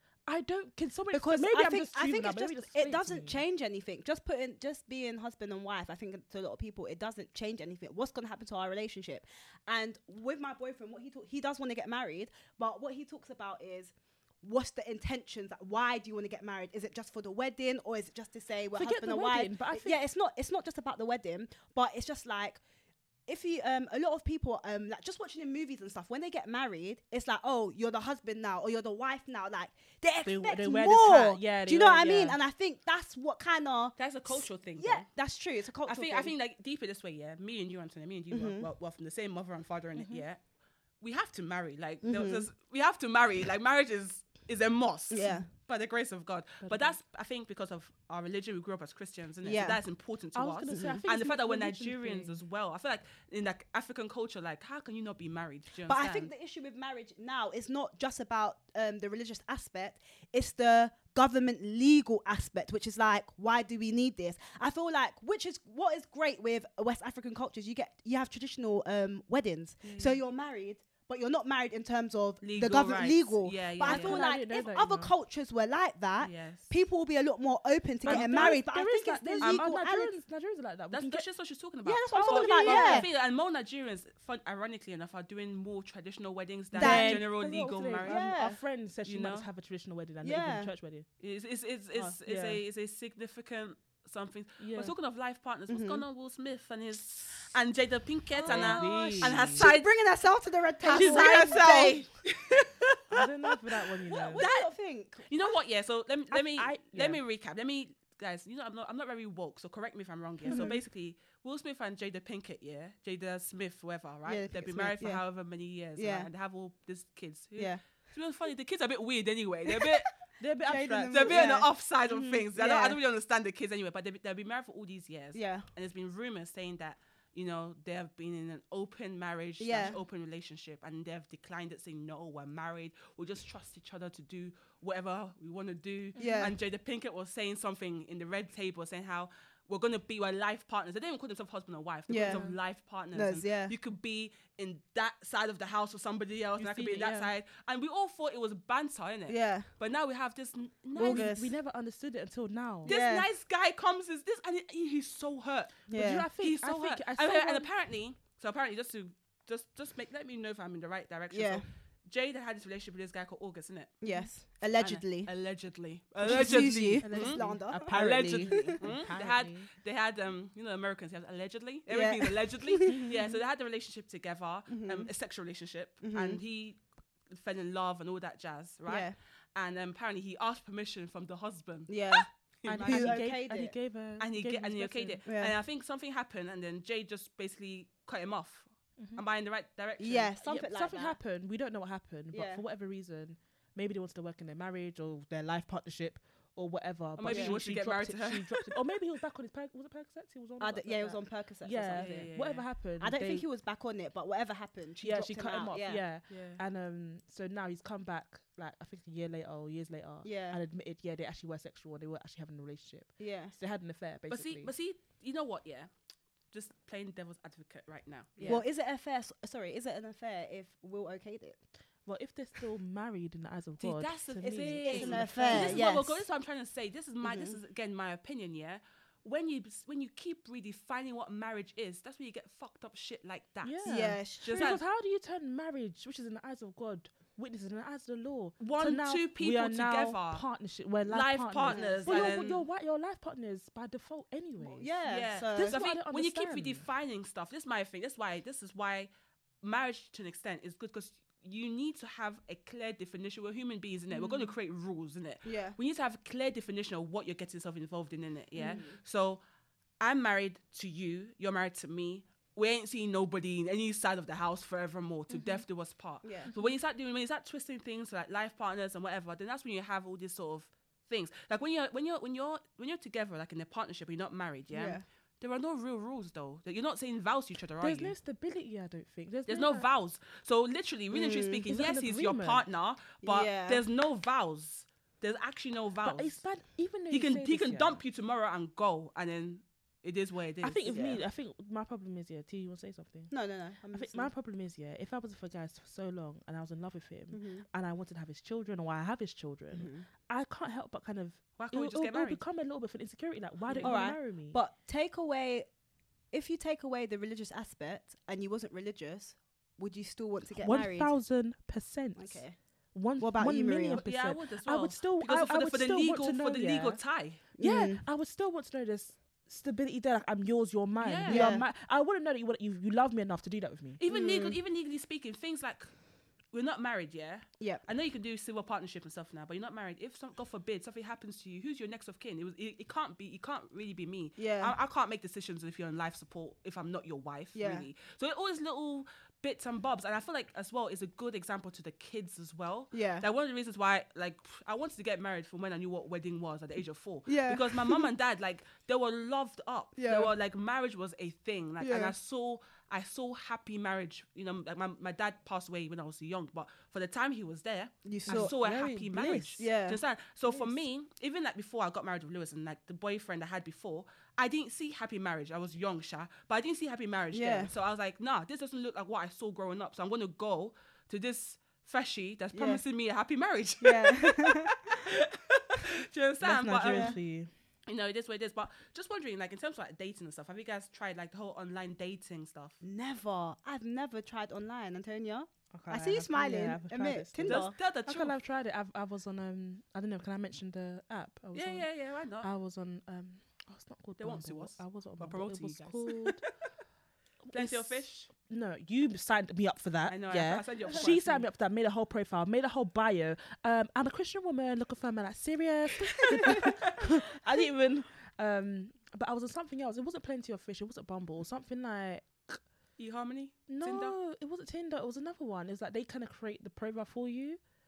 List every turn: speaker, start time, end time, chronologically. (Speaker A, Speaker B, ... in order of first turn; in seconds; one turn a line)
Speaker A: 0.3-3.4
Speaker B: 1.1-22.6
Speaker A: 18.8-20.0
Speaker B: 23.3-36.3
Speaker A: 30.2-32.4
Speaker C: 34.0-35.1
Speaker C: 35.8-40.4
Speaker B: 38.3-38.7
Speaker A: 40.0-40.2
Speaker C: 41.0-56.3
Speaker B: 42.0-42.5
Speaker B: 45.1-45.5
Speaker A: 46.6-47.0
Speaker B: 49.4-49.8
Speaker A: 50.4-52.4
Speaker B: 50.7-51.0
Speaker B: 55.9-80.2
Speaker C: 69.9-70.2
Speaker C: 72.4-74.2
Speaker A: 73.8-75.1
Speaker C: 76.2-76.7
Speaker C: 78.0-78.6
Speaker A: 78.0-81.2
Speaker C: 80.9-88.2
Speaker B: 81.8-83.1
Speaker A: 82.1-83.1
Speaker A: 86.7-91.1
Speaker B: 86.8-87.3
Speaker B: 88.0-88.6
Speaker C: 89.1-89.5
Speaker B: 90.2-90.7
Speaker C: 91.2-99.9
Speaker A: 92.2-92.6
Speaker A: 94.6-94.9
Speaker B: 95.7-96.0
Speaker B: 98.3-102.0
Speaker A: 98.5-99.7
Speaker C: 100.8-103.3
Speaker A: 100.9-101.7
Speaker A: 103.1-104.5
Speaker B: 104.1-105.6
Speaker C: 104.3-104.7
Speaker C: 105.3-120.1
Speaker A: 106.3-107.2
Speaker A: 110.5-110.8
Speaker B: 110.5-110.8
Speaker B: 114.3-115.2
Speaker B: 116.0-116.3
Speaker B: 117.6-117.8
Speaker A: 120.4-121.4
Speaker B: 120.7-121.7
Speaker C: 121.1-151.3
Speaker A: 122.1-122.4
Speaker B: 122.5-123.0
Speaker B: 125.3-125.7
Speaker B: 129.6-130.0
Speaker A: 136.2-136.5
Speaker B: 136.2-136.6
Speaker B: 142.1-142.5
Speaker A: 142.2-142.6
Speaker B: 143.1-143.8
Speaker A: 146.6-147.3
Speaker B: 149.3-149.7
Speaker B: 151.0-151.5
Speaker A: 151.0-153.0
Speaker B: 152.8-153.3
Speaker C: 152.8-164.0
Speaker B: 155.9-156.3
Speaker A: 155.9-157.7
Speaker B: 161.3-161.7
Speaker B: 164.0-165.3
Speaker C: 164.8-183.2
Speaker B: 166.2-168.8
Speaker A: 166.2-169.7
Speaker B: 171.9-173.2
Speaker B: 174.7-175.1
Speaker B: 176.0-176.4
Speaker B: 178.9-179.2
Speaker B: 181.9-182.3
Speaker A: 182.7-185.2
Speaker B: 182.8-183.7
Speaker C: 184.2-190.4
Speaker B: 185.3-185.6
Speaker A: 189.0-189.2
Speaker B: 190.0-191.2
Speaker A: 190.4-203.5
Speaker B: 192.3-192.6
Speaker C: 197.2-198.7
Speaker B: 197.3-197.6
Speaker B: 200.6-202.3
Speaker C: 201.9-202.7
Speaker B: 203.0-206.0
Speaker A: 205.0-214.7
Speaker C: 206.3-206.6
Speaker B: 210.2-210.6
Speaker B: 213.2-213.5
Speaker C: 214.3-215.9
Speaker C: 216.5-218.6
Speaker A: 218.4-218.7
Speaker B: 218.4-221.6
Speaker A: 222.1-225.8
Speaker C: 223.8-234.8
Speaker B: 224.5-226.2
Speaker B: 227.2-227.6
Speaker A: 233.6-244.9
Speaker B: 233.8-234.8
Speaker C: 238.6-240.4
Speaker C: 241.1-242.6
Speaker B: 241.6-242.5
Speaker B: 244.6-245.8
Speaker C: 245.1-249.1
Speaker A: 245.5-246.8
Speaker C: 249.6-259.4
Speaker B: 255.4-255.8
Speaker B: 258.6-259.0
Speaker C: 260.0-278.1
Speaker A: 265.3-265.6
Speaker B: 266.2-266.5
Speaker B: 274.7-275.0
Speaker A: 277.8-279.9
Speaker C: 279.5-286.4
Speaker B: 281.1-281.7
Speaker A: 281.7-282.6
Speaker B: 283.2-283.8
Speaker A: 286.1-288.0
Speaker C: 287.1-291.2
Speaker A: 290.6-293.3
Speaker B: 293.3-294.3
Speaker A: 293.9-304.6
Speaker B: 297.3-297.7
Speaker B: 299.7-300.1
Speaker C: 301.6-302.4
Speaker C: 303.7-304.1
Speaker B: 303.8-305.7
Speaker B: 306.3-311.1
Speaker A: 310.6-312.4
Speaker B: 312.2-312.6
Speaker A: 312.9-317.0
Speaker B: 313.2-314.0
Speaker C: 314.0-317.4
Speaker B: 317.6-318.0
Speaker A: 317.6-324.0
Speaker C: 321.0-321.6
Speaker B: 321.3-321.6
Speaker C: 324.0-325.9
Speaker B: 324.1-324.6
Speaker C: 326.5-377.2
Speaker B: 334.4-334.7
Speaker B: 337.6-337.9
Speaker B: 342.9-343.3
Speaker B: 347.3-348.1
Speaker B: 350.0-350.3
Speaker B: 351.8-352.1
Speaker B: 358.1-358.5
Speaker A: 358.3-359.6
Speaker B: 359.5-360.0
Speaker B: 367.3-367.7
Speaker B: 372.5-372.8
Speaker B: 373.8-374.8
Speaker A: 376.4-377.5
Speaker B: 376.8-377.2
Speaker C: 377.9-382.8
Speaker B: 382.8-387.7
Speaker A: 385.7-391.9
Speaker C: 387.4-388.4
Speaker C: 391.5-392.5
Speaker A: 392.4-396.4
Speaker C: 394.2-396.4
Speaker A: 397.4-412.6
Speaker C: 397.5-398.3
Speaker C: 400.1-401.5
Speaker C: 413.0-414.2
Speaker A: 413.7-417.6